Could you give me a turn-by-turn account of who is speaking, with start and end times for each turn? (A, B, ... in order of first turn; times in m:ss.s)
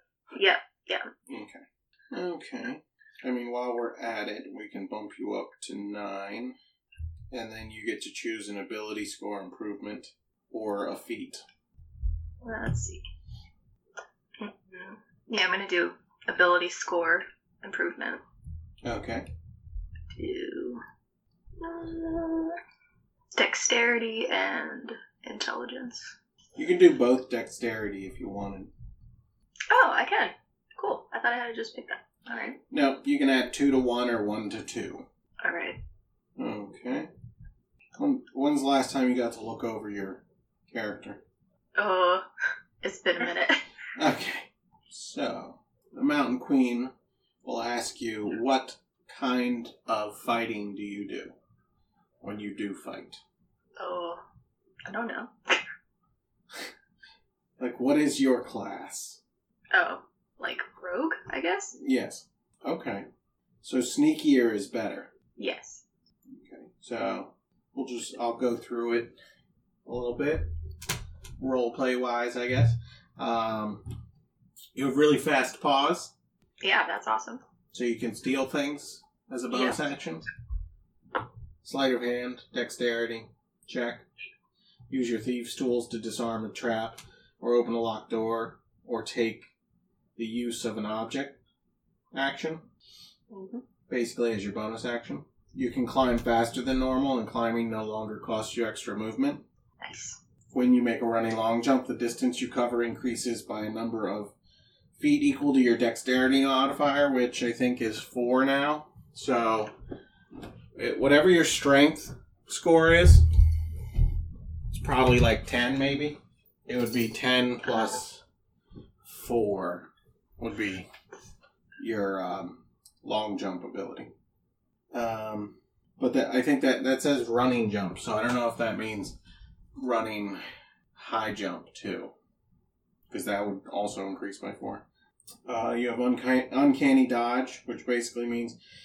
0:00.3-0:01.1 A
0:01.3-0:06.6 B
0:07.3-0:11.4 B
0:12.4-0:13.0 A
0:14.4-0:18.2 A
0:18.8-0:19.3 B
0:20.1-0:20.8 A
0:21.6-0:22.6 A
0:23.3-0:26.1 A
0:26.6-0:28.7 B
0:29.7-0:32.6 A
0:32.7-0:35.0 B
0:35.4-0:35.8 A
0:36.4-0:37.1 B
0:37.9-0:41.2 B
0:41.8-0:42.2 A
0:42.8-0:43.6 A
0:44.0-0:46.9 B
0:47.4-0:51.3 B
0:52.2-0:53.2 B
0:53.8-0:54.2 A
0:54.8-0:55.6 A
0:57.6-0:59.2 B
0:59.7-1:01.7 A
1:01.8-1:03.0 B
1:03.6-1:05.1 B
1:05.4-1:05.8 A
1:06.3-1:09.1 B
1:09.8-1:10.5 B
1:11.4-1:13.9 B
1:14.7-1:16.1 B
1:16.6-1:17.4 A
1:17.7-1:20.2 B
1:19.5-1:19.8 A
1:21.6-1:24.0 B
1:24.9-1:29.5 B
1:30.2-1:31.4 B
1:32.1-1:32.6 B
1:33.3-1:33.6 A
1:33.9-1:39.4 B
1:39.8-1:40.2 A
1:40.5-1:44.3 B
1:45.0-1:49.7 B
1:50.7-1:53.2 B
1:54.7-1:58.2 B
1:59.1-2:00.9 B
2:01.8-2:04.1 B
2:04.9-2:09.2 B
2:09.8-2:10.4 B
2:10.9-2:12.1 B
2:13.1-2:14.8 B
2:15.4-2:18.6 B